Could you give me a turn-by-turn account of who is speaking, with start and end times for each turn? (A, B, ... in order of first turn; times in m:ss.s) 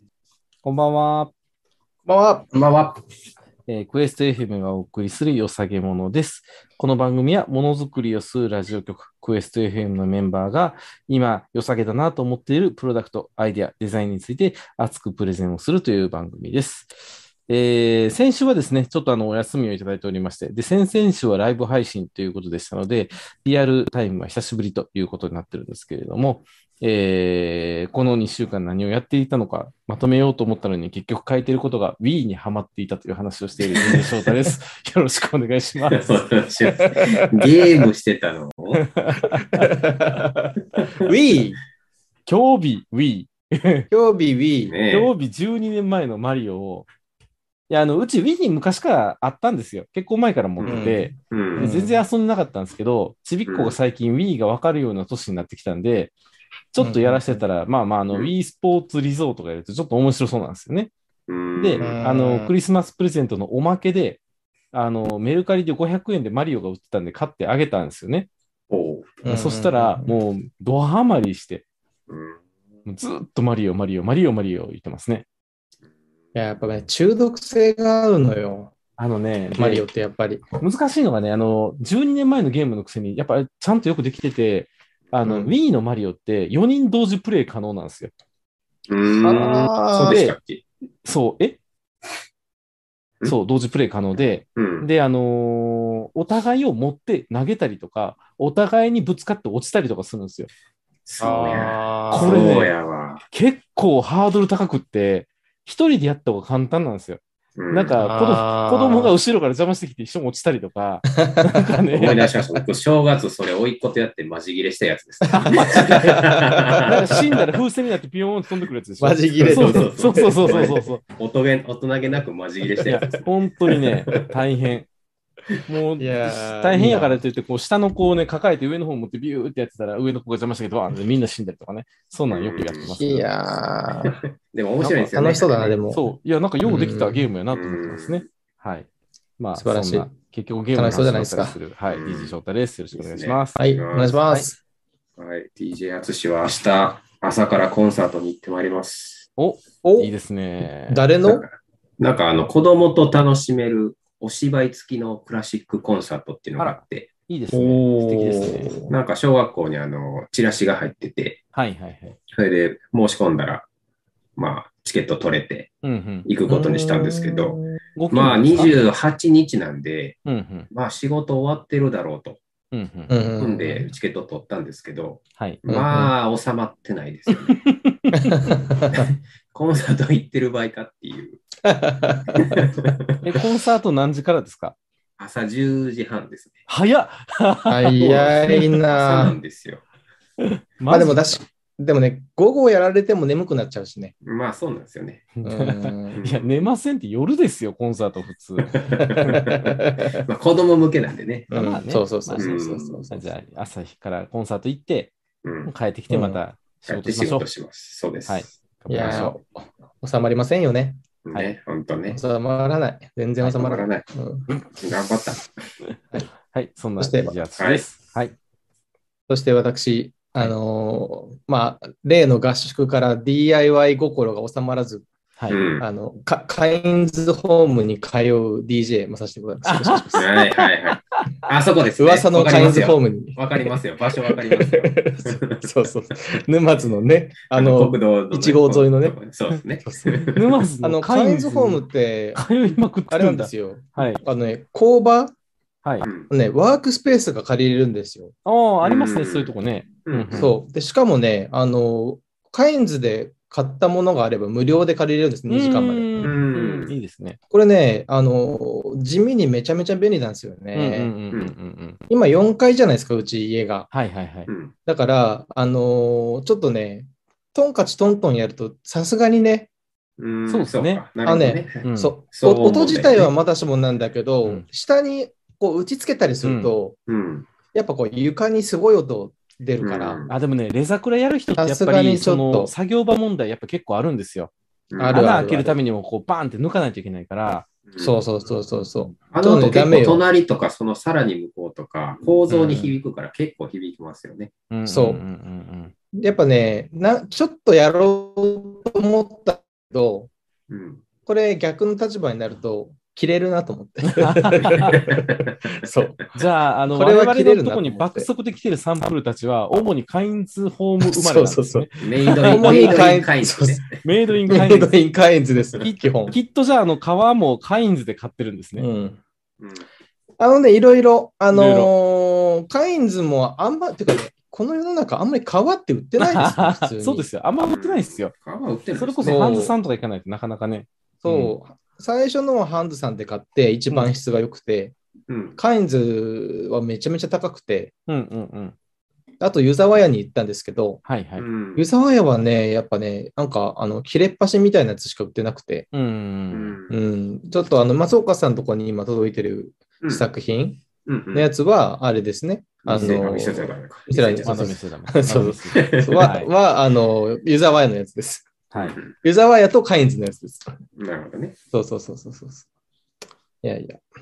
0:00.6-0:01.3 A
0:02.1-0:02.6 B
0:02.5-0:02.9 C
0:03.7-0:36.1 A
0:33.8-0:34.0 C
0:35.9-0:38.9 C
0:36.7-0:37.3 B
0:38.8-0:39.8 A
0:39.5-0:41.6 B
0:40.8-0:41.1 C
0:42.3-0:43.9 A
0:43.9-0:44.8 B
0:44.7-0:45.1 C
0:44.9-0:46.9 A
0:47.7-0:56.1 A
0:50.6-0:51.7 C
0:50.6-0:52.0 B
0:53.5-0:53.8 C
0:56.7-1:00.9 A
0:56.8-0:57.4 B
1:01.3-1:02.0 C
1:01.6-1:04.2 A
1:01.8-1:02.5 B
1:04.7-1:08.3 A
1:08.7-1:09.2 C
1:09.2-1:10.1 B
1:09.3-1:11.6 A
1:12.1-1:12.4 C
1:12.9-1:15.3 A
1:16.3-1:18.8 B
1:19.0-1:19.8 A
1:19.6-1:20.4 B
1:20.6-1:28.1 A
1:25.3-1:25.5 B
1:28.9-1:30.6 C
1:29.2-1:30.2 B
1:30.1-1:30.4 A
1:31.0-1:31.6 A
1:33.2-1:40.5 A
1:34.6-1:34.9 C
1:41.1-1:43.2 C
1:41.2-1:42.4 B
1:42.1-1:42.7 A
1:43.3-1:52.3 A
1:47.6-1:47.9 C
1:48.0-1:49.1 B
1:51.2-1:51.7 B
1:51.9-1:57.3 C
1:55.3-1:56.2 A
1:55.3-1:57.4 B
1:56.8-2:01.0 A
1:59.0-2:00.9 B
1:59.4-2:03.3 C
2:02.8-2:04.9 A
2:02.9-2:03.2 B
2:05.7-2:13.3 A
2:06.0-2:07.2 B
2:12.3-2:12.9 C
2:12.9-2:14.2 B
2:14.0-2:15.8 C
2:14.8-2:15.1 A
2:15.0-2:16.0 B
2:15.9-2:18.9 A
2:16.6-2:17.3 B
2:17.5-2:18.2 C
2:19.4-2:23.7 A
2:19.6-2:20.1 B
2:20.7-2:21.6 B
2:21.9-2:22.3 C
2:22.9-2:24.2 C
2:23.6-2:24.6 B
2:25.2-2:29.3 C
2:29.4-2:31.0 A
2:29.8-2:30.1 B
2:30.9-2:31.5 B
2:31.2-2:37.1 C
2:36.6-2:38.8 A
2:37.5-2:38.9 B
2:38.9-2:41.4 C
2:41.5-2:42.2 A
2:42.3-2:43.7 C
2:44.4-2:45.7 C
2:45.8-2:46.3 A
2:46.3-2:47.6 C
2:46.5-2:47.8 B
2:48.0-2:48.9 A
2:48.1-2:52.4 C
2:50.3-2:50.7 A
2:52.7-2:53.3 A
2:53.1-2:53.9 B
2:53.4-2:57.6 C
2:55.7-2:56.1 B
2:57.5-2:58.5 A
2:58.2-2:59.1 B
2:58.8-3:01.4 C
3:01.6-3:02.6 B
3:02.4-3:03.4 C
3:03.2-3:04.8 A
3:05.2-3:06.7 C
3:06.7-3:08.6 A
3:07.7-3:09.4 B
3:08.0-3:09.8 C
3:10.4-3:11.4 A
3:10.9-3:14.1 B
3:14.2-3:15.3 C
3:15.4-3:19.6 A
3:15.4-3:16.2 B
3:16.1-3:16.5 C
3:18.7-3:21.5 C
3:19.0-3:20.2 B
3:21.5-3:23.3 B
3:21.5-3:22.5 A
3:22.4-3:23.1 C
3:23.1-3:25.1 A
3:25.4-3:25.7 C
3:25.6-3:27.5 A
3:26.1-3:26.4 B
3:26.9-3:29.3 C
3:28.3-3:29.4 A
3:28.9-3:31.0 B
3:31.2-3:32.2 C
3:32.1-3:34.5 B
3:33.4-3:34.0 C
3:34.8-3:35.5 C
3:35.9-3:38.4 A
3:37.0-3:37.4 B
3:37.6-3:37.8 C
3:39.3-3:45.1 B
3:45.5-3:45.9 C
3:45.8-3:50.3 B
3:49.7-3:51.3 A
3:50.2-3:56.4 C
3:52.0-3:59.2 B
3:57.5-4:00.5 C
3:59.8-4:05.3 B
4:00.3-4:01.8 A
4:02.4-4:04.2 A
4:06.0-4:06.3 C
4:06.3-4:08.3 B
4:08.4-4:10.5 A
4:08.8-4:09.5 C
4:10.0-4:10.5 C
4:10.4-4:16.1 B
4:15.5-4:17.4 A
4:16.2-4:17.0 C
4:17.5-4:21.1 B
4:20.7-4:22.0 A
4:22.1-4:23.9 B
4:23.9-4:24.5 A
4:24.5-4:24.7 C
4:24.9-4:29.7 B
4:30.2-4:33.3 C
4:30.5-4:31.0 A
4:31.2-4:37.0 B
4:31.8-4:32.2 A
4:36.4-4:36.7 A
4:37.1-4:37.5 C
4:37.7-4:40.2 B
4:39.8-4:40.4 C
4:40.3-4:44.5 A
4:41.6-4:42.7 B
4:44.9-4:45.3 C
4:45.0-4:45.8 B
4:45.1-4:47.7 A
4:48.0-4:50.2 B
4:49.2-4:54.5 C
4:52.5-4:53.0 B
4:54.7-4:55.9 A
4:54.9-4:55.2 B
4:56.1-5:00.3 B
5:00.7-5:01.0 C
5:01.3-5:06.2 B
5:04.0-5:05.0 A
5:04.9-5:05.9 C
5:06.3-5:13.2 A
5:06.9-5:08.3 B
5:11.0-5:13.8 B
5:12.0-5:14.0 C
5:14.0-5:15.0 A
5:14.5-5:16.4 B
5:15.8-5:18.9 A
5:18.8-5:19.2 B
5:19.6-5:19.9 C
5:20.4-5:27.3 B
5:21.5-5:21.9 A
5:26.2-5:28.3 A
5:27.6-5:29.4 C
5:29.0-5:31.5 A
5:29.2-5:29.8 B
5:31.2-5:35.0 B
5:35.3-5:35.6 C
5:35.6-5:37.9 B
5:38.1-5:38.8 A
5:39.4-5:41.0 B
5:41.1-5:41.5 A
5:41.4-5:41.9 C
5:41.8-5:45.9 B
5:45.9-5:46.8 A
5:46.5-5:47.0 C
5:46.9-6:00.8 B
5:51.1-5:51.5 C
5:52.8-5:54.7 C
5:52.9-5:53.2 A
5:54.4-5:56.5 A
5:55.8-5:56.3 C
5:58.8-5:59.2 C
6:01.0-6:01.6 C
6:01.7-6:02.7 B
6:03.6-6:04.0 B